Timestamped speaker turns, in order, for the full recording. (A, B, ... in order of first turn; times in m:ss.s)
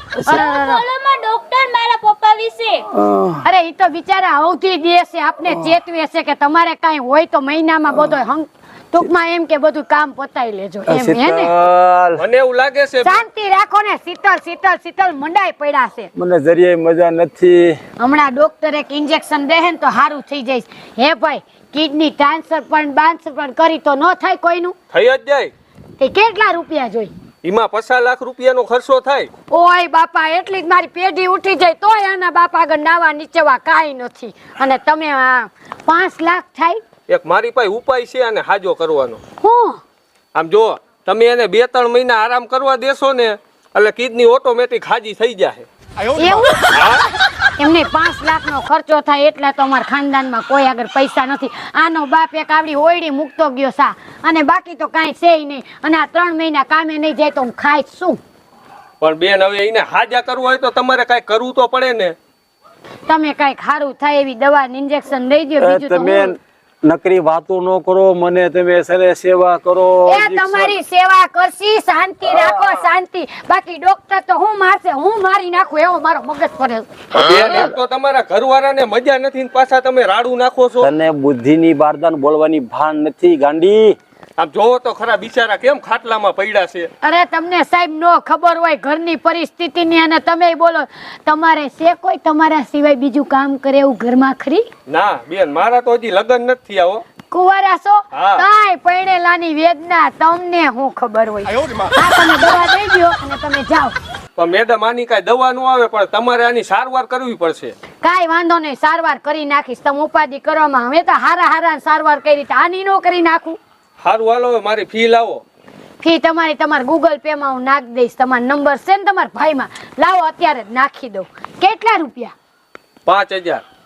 0:00.2-0:00.4 A
0:00.2-0:00.8 B
0:00.3-0:02.9 C
0:02.9-0:03.4 A
0:03.4-0:11.5 B
0:10.9-0:12.2 A
0:12.2-0:13.2 D
0:13.0-0:16.1 B
0:16.1-0:17.8 A
0:18.0-0:24.8 B
0:24.9-0:25.5 D
0:26.0-0:27.1 B
0:27.4-0:29.3 D
0:29.5-0:36.8 B
0:37.1-0:39.2 D
0:39.4-0:39.8 B
0:40.3-0:45.7 D
0:46.1-0:46.7 B
0:46.7-0:47.0 D
0:47.6-0:58.2 B
0:59.0-1:02.2 D
1:03.1-1:06.3 B
1:05.6-1:10.7 A
1:10.1-1:16.9 B
1:12.3-1:12.5 A
1:17.1-1:20.9 D
1:17.2-1:17.7 A
1:20.8-1:24.0 A
1:24.4-1:26.9 D
1:27.0-1:34.7 B
1:34.9-1:37.0 D
1:37.3-1:43.9 B
1:38.1-1:38.4 D
1:44.4-1:47.7 D
1:48.0-1:53.6 B
1:54.0-1:55.4 D
1:56.0-2:02.3 B
2:03.1-2:03.6 D